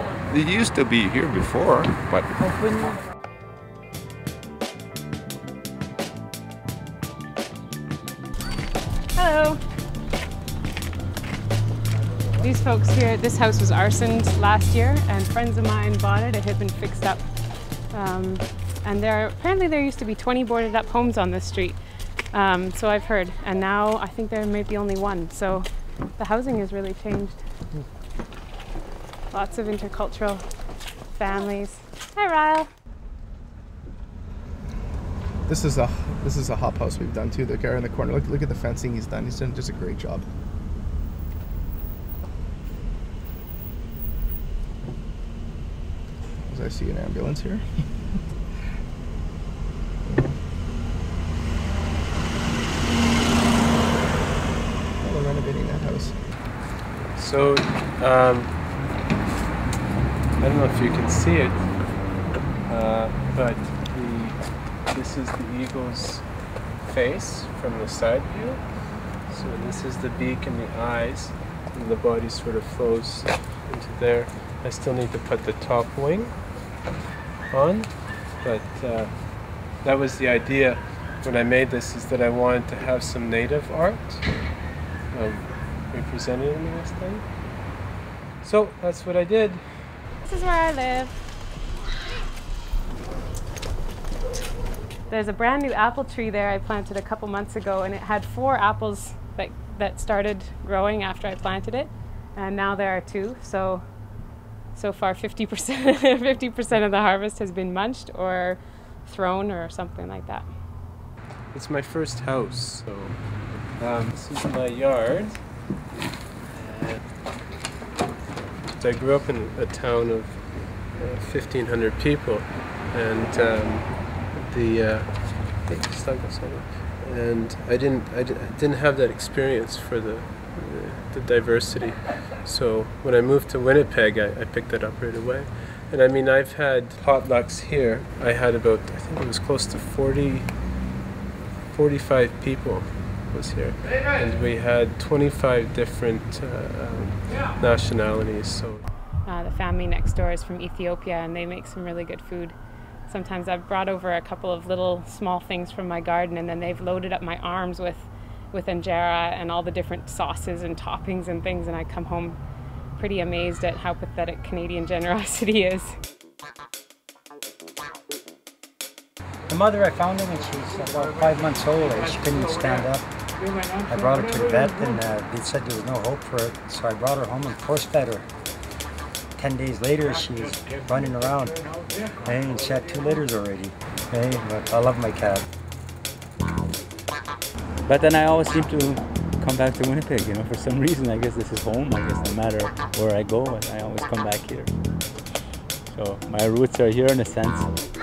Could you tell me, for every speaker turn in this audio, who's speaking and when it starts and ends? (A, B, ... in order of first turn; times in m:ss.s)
0:00.3-0:02.3 A
0:09.1-0:09.6 B
0:12.4-0:17.2 B
0:17.9-0:21.8 B
0:22.3-0:27.4 B
0:29.3-0:30.4 B
0:31.2-0:32.7 B
0:35.4-0:40.2 C
0:46.5-0:47.6 C
0:50.0-0:50.4 C
0:55.0-0:56.1 C
0:57.1-0:58.5 D
1:00.4-1:01.7 D
1:02.6-1:06.3 D
1:06.8-1:08.6 D
1:09.3-1:16.6 D
1:17.5-1:24.2 D
1:25.1-1:27.4 D
1:28.4-1:29.6 D
1:30.2-1:31.2 B
1:35.1-1:43.9 B
1:44.7-1:50.5 B
1:51.5-1:55.4 D
1:56.5-1:57.0 D
1:58.7-2:20.6 D
2:21.7-2:28.8 D
2:29.2-2:32.5 B
2:33.1-2:42.4 B
2:43.0-2:45.9 B
2:49.5-2:53.0 E
2:53.8-2:58.2 E
2:59.4-3:01.6 E
3:02.2-3:05.4 E
3:07.8-3:14.7 F
3:15.9-3:17.7 F